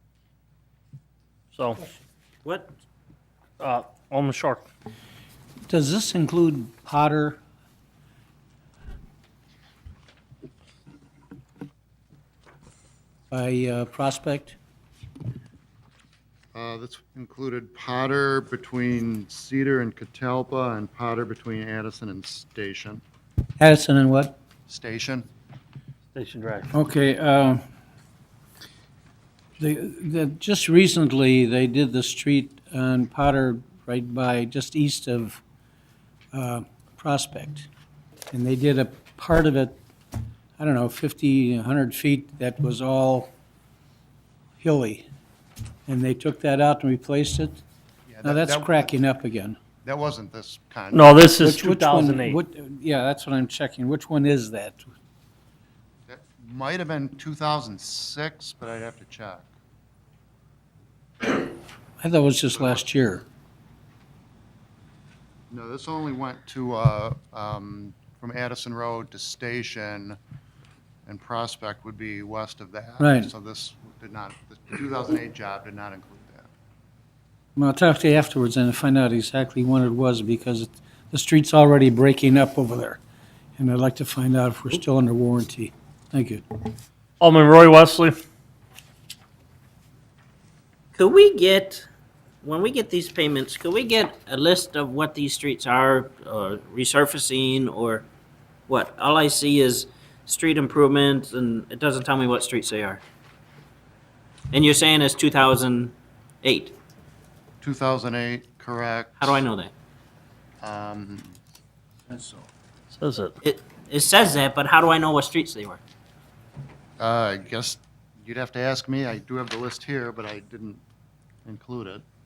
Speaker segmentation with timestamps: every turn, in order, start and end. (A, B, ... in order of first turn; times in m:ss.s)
0:01.5-0:01.8 A
0:02.4-0:02.7 B
0:03.6-0:04.7 A
0:05.7-0:07.4 C
0:13.3-0:14.6 C
0:16.5-0:23.0 D
0:23.6-0:24.4 C
0:24.7-0:25.3 D
0:26.1-0:26.7 A
0:26.7-0:27.6 C
0:29.6-0:35.4 C
0:36.3-0:37.7 C
0:38.3-0:39.8 C
0:40.6-0:43.3 C
0:44.6-0:45.0 C
0:45.9-0:47.6 C
0:48.0-0:48.9 D
0:48.2-0:49.6 C
0:49.8-0:51.2 D
0:50.9-0:52.4 A
0:51.4-0:54.9 C
0:56.1-0:59.5 D
1:02.0-1:03.2 C
1:02.5-1:02.8 D
1:05.5-1:10.2 D
1:11.0-1:16.5 D
1:13.0-1:13.3 C
1:17.6-1:23.0 C
1:23.6-1:26.4 C
1:27.2-1:28.2 A
1:30.9-1:31.9 B
1:32.4-1:38.0 B
1:38.7-1:43.0 B
1:44.5-1:46.8 B
1:47.6-1:49.4 D
1:49.2-1:49.7 B
1:50.6-1:51.4 D
1:52.1-1:52.5 C
1:52.9-1:53.3 A
1:53.4-1:55.8 B
1:57.0-2:00.8 D
2:01.4-2:02.0 D